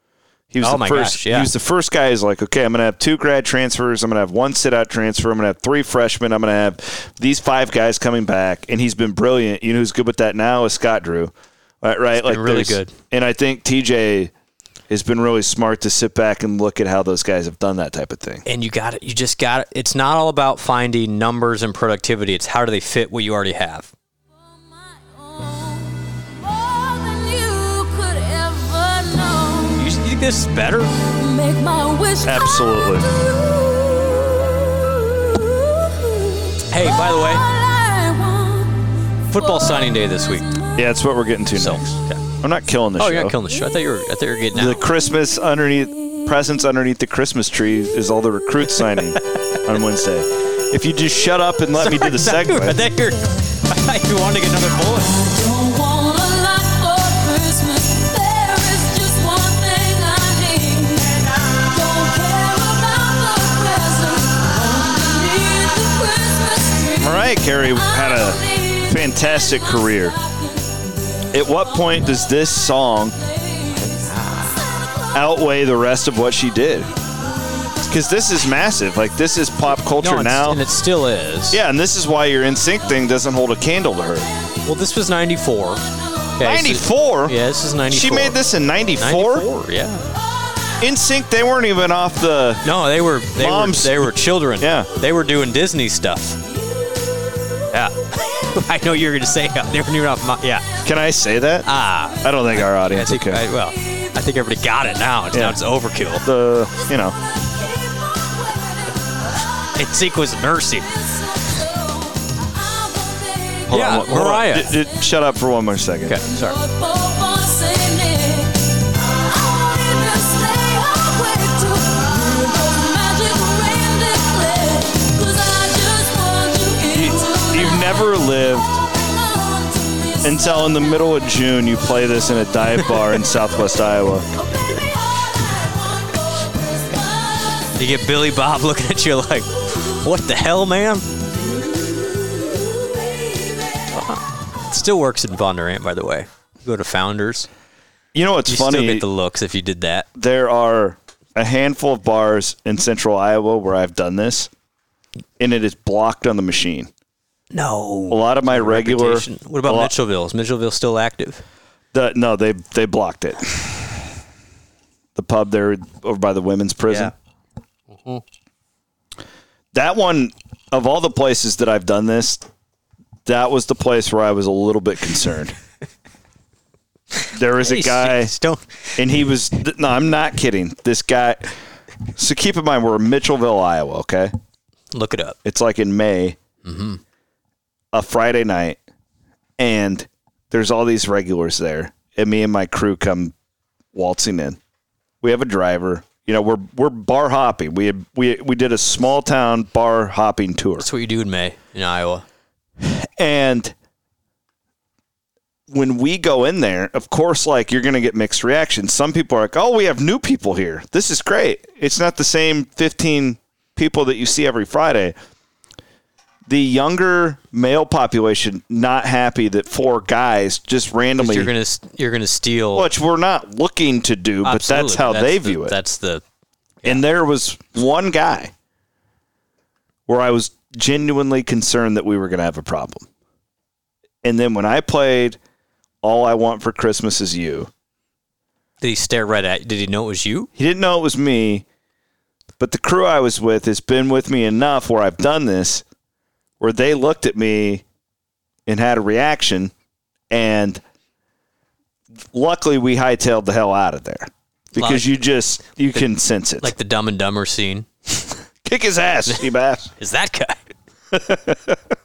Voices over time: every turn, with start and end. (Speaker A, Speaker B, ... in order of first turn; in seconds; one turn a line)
Speaker A: 0.5-14.3
Speaker B: 0.6-1.5
Speaker B: 12.1-12.9
Speaker A: 14.9-18.4
Speaker B: 18.4-23.9
Speaker C: 24.6-29.9
Speaker B: 29.8-30.9
Speaker C: 31.0-34.5
Speaker A: 32.2-33.1
Speaker C: 35.2-40.4
Speaker B: 36.7-37.5
Speaker B: 39.3-40.5
Speaker A: 40.8-43.3
Speaker B: 41.5-42.2
Speaker B: 43.0-44.8
Speaker A: 44.5-52.8
Speaker B: 48.8-49.2
Speaker B: 51.8-55.1
Speaker C: 55.1-72.3
Speaker A: 67.0-70.2
Speaker A: 71.3-73.2
Speaker C: 73.1-74.8
Speaker B: 73.8-74.7
Speaker A: 75.1-76.9
Speaker A: 77.9-80.6
Speaker B: 80.0-81.6
Speaker A: 81.5-84.3
Speaker B: 84.6-85.8
Speaker B: 86.4-88.4
Speaker A: 86.4-87.3
Speaker A: 87.9-89.5
Speaker B: 89.0-90.1
Speaker A: 90.8-92.7
Speaker B: 92.6-96.4
Speaker A: 93.4-94.9
Speaker B: 97.7-100.7
Speaker A: 100.8-101.7
Speaker B: 101.6-106.2
Speaker A: 102.2-103.4
Speaker A: 105.3-105.6
Speaker A: 106.2-107.2
Speaker C: 107.6-108.9
Speaker B: 109.7-110.9
Speaker C: 111.1-113.7
Speaker A: 113.7-116.2
Speaker B: 113.7-114.7
Speaker B: 116.1-116.5
Speaker C: 116.3-128.2
Speaker A: 126.9-128.8
Speaker C: 128.8-130.7
Speaker A: 130.2-134.2
Speaker B: 137.7-141.1
Speaker B: 143.9-147.5
Speaker A: 148.1-149.1
Speaker B: 148.5-150.1
Speaker A: 150.2-154.5
Speaker A: 155.4-156.9
Speaker B: 157.5-161.4
Speaker A: 158.1-159.9
Speaker A: 161.9-164.0
Speaker A: 165.2-167.1
Speaker B: 166.9-167.1
Speaker A: 169.7-172.4
Speaker A: 173.2-175.5
Speaker B: 177.2-179.0
Speaker A: 177.3-178.3
Speaker A: 179.0-181.5
Speaker A: 182.2-184.3
Speaker B: 184.9-185.4
Speaker A: 185.4-186.4
Speaker B: 186.6-187.0
Speaker A: 187.9-188.8
Speaker A: 189.6-193.3
Speaker A: 193.9-194.6
Speaker A: 195.2-200.9
Speaker B: 200.8-202.2
Speaker A: 202.8-203.7
Speaker A: 205.7-215.1
Speaker A: 216.5-221.5
Speaker B: 221.2-222.9
Speaker A: 222.7-225.8
Speaker B: 224.4-226.2
Speaker A: 226.8-228.5
Speaker A: 230.1-233.1
Speaker A: 234.2-235.4
Speaker A: 236.0-237.7
Speaker B: 238.8-240.5
Speaker A: 240.6-241.6
Speaker A: 242.6-245.8
Speaker A: 246.6-247.8
Speaker A: 248.7-249.7
Speaker A: 250.3-250.8
Speaker A: 252.3-256.7
Speaker B: 254.7-255.1
Speaker B: 256.6-257.9
Speaker A: 258.6-259.9
Speaker B: 260.0-260.6
Speaker A: 261.1-261.8